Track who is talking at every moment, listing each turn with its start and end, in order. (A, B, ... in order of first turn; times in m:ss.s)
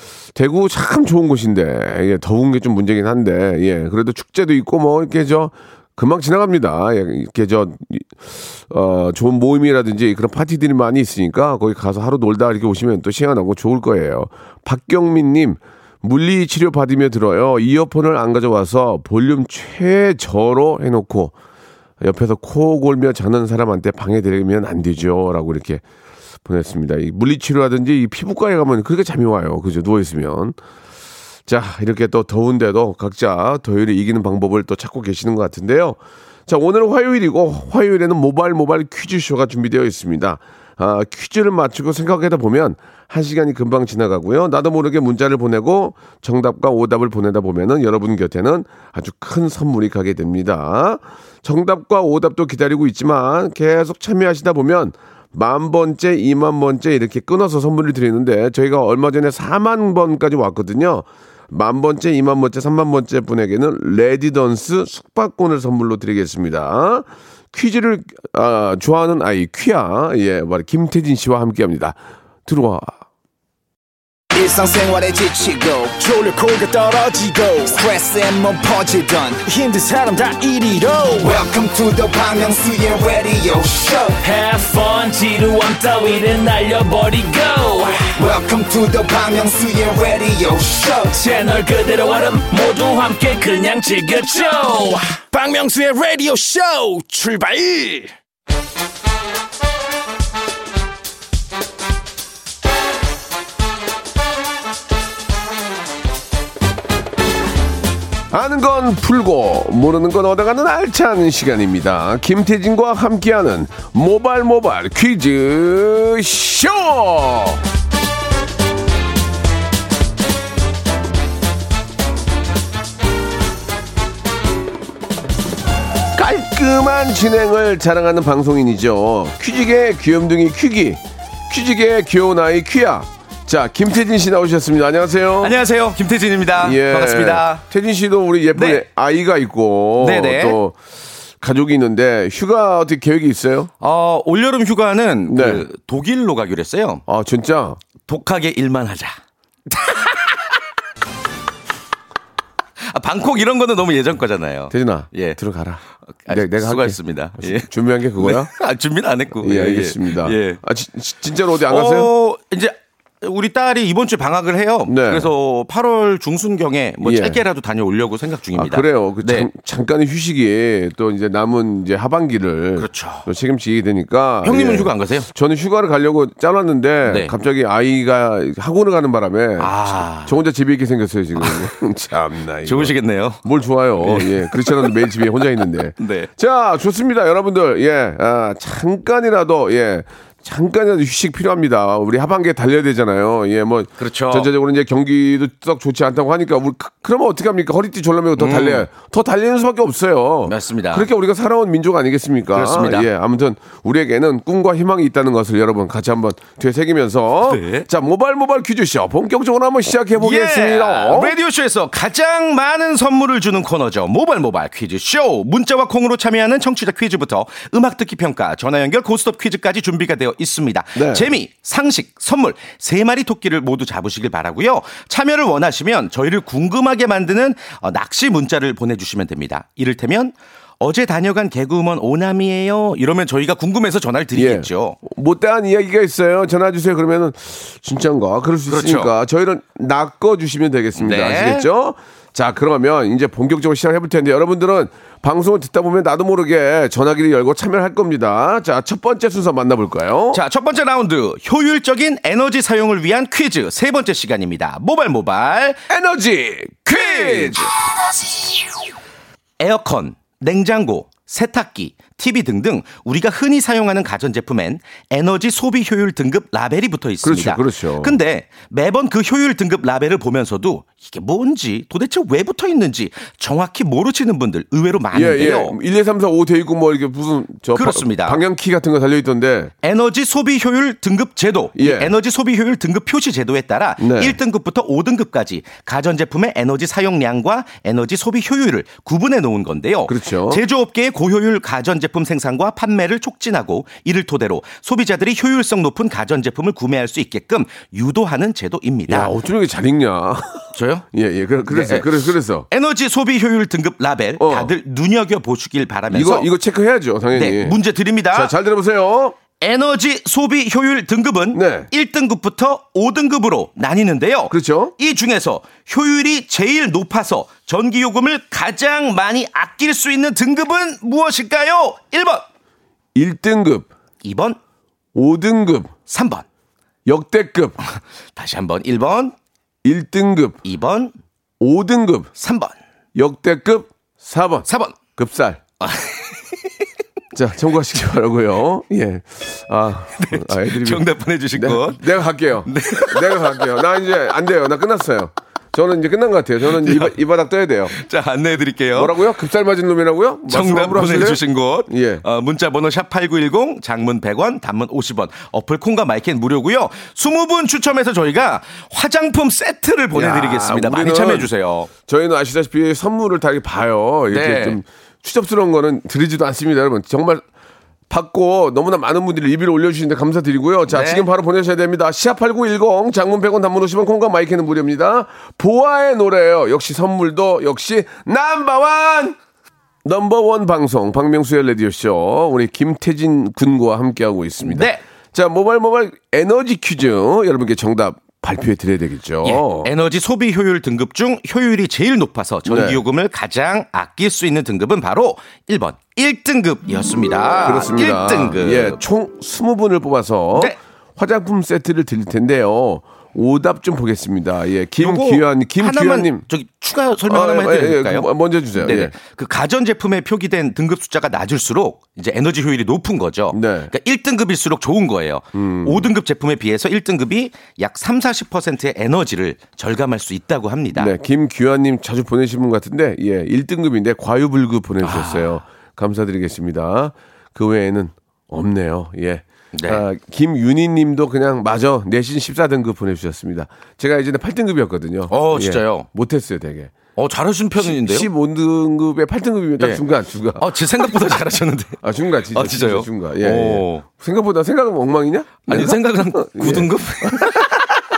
0:00.3-0:21.3 A
0:22.0-0:25.8 A
0:26.4-0:30.6 A
0:31.5-1:13.0 A
1:14.3-1:24.2 B
1:24.2-1:28.1 C
1:28.1-1:31.2 B
1:31.1-1:35.2 C
1:35.3-1:38.1 D
1:48.3-1:57.6 A
2:06.1-2:15.6 A
2:15.4-2:17.6 E
2:16.6-2:20.8 A
2:18.5-2:18.8 E
2:20.0-2:20.6 E
2:21.4-2:23.7 A
2:23.8-2:27.0 E
2:25.3-2:25.6 A
2:27.1-2:27.8 A
2:28.0-2:29.1 E
2:29.7-2:30.3 E
2:32.8-2:35.4 E
2:34.7-2:38.5 A
2:36.2-2:40.6 E
2:39.4-2:42.1 A
2:41.7-2:49.5 E
2:44.8-2:45.3 A
2:47.0-2:47.4 A
2:48.5-3:31.3 A
2:52.8-2:53.3 E
2:54.4-2:55.3 E
2:57.0-2:57.3 E
2:59.6-3:00.4 E
3:01.4-3:01.6 E
3:02.6-3:03.4 E
3:04.0-3:05.1 E
3:06.0-3:06.3 E
3:14.0-3:14.5 E
3:18.4-3:18.9 E
3:20.4-3:21.1 E
3:22.5-3:23.1 E
3:27.4-3:27.9 E
3:30.1-3:55.0 E
3:41.0-3:41.3 A
3:54.3-4:10.4 A
3:58.7-3:59.1 E
4:01.0-4:01.7 E
4:10.3-4:15.8 E
4:15.9-4:17.7 A
4:16.9-4:17.7 E
4:19.6-4:35.8 E
4:27.2-4:28.2 A
4:35.1-4:39.7 A
4:37.7-4:38.4 E
4:39.8-4:59.3 E
4:41.8-4:42.1 A
4:44.0-4:44.4 A
4:50.1-4:50.6 A
4:59.1-5:02.7 A
5:00.7-5:01.0 E
5:01.7-5:06.5 E
5:04.4-5:04.7 A
5:06.1-5:07.8 A
5:07.3-5:08.5 E
5:08.3-5:09.4 A
5:09.6-5:22.4 E
5:11.5-5:11.9 A
5:14.5-5:14.9 A
5:23.1-5:23.9 A
5:24.2-5:24.6 E
5:25.1-5:25.9 A
5:26.1-5:26.4 E
5:27.1-5:27.8 A
5:28.4-5:29.3 E
5:29.8-5:30.6 A
5:30.6-5:31.1 E
5:31.6-5:32.3 A
5:32.4-5:32.8 E
5:33.1-5:35.6 A
5:34.6-5:35.0 E
5:35.8-5:36.4 E
5:37.3-5:47.9 A
5:40.2-5:42.1 E
5:42.6-5:43.7 E
5:46.7-5:47.1 E
5:47.9-5:49.2 E
5:48.9-5:52.2 A
5:50.5-6:01.9 E
6:00.1-6:01.5 A
6:02.0-6:07.4 A
6:04.3-6:04.8 E
6:08.1-6:19.4 A
6:10.9-6:11.2 E
6:20.0-6:29.9 A
6:24.6-6:25.0 E
6:29.4-6:39.0 E
6:32.6-6:33.0 A
6:37.6-6:46.4 A
6:45.0-7:01.1 E
6:47.3-6:49.1 A
6:53.5-6:53.9 A
6:55.5-6:56.1 A
7:00.9-7:16.9 A
7:05.0-7:05.6 E
7:09.7-7:10.0 E
7:15.3-7:16.1 E
7:17.2-7:18.3 E
7:17.8-7:20.6 A
7:20.6-7:22.0 E
7:22.0-7:27.5 A
7:22.5-7:24.0 E
7:25.6-7:28.0 E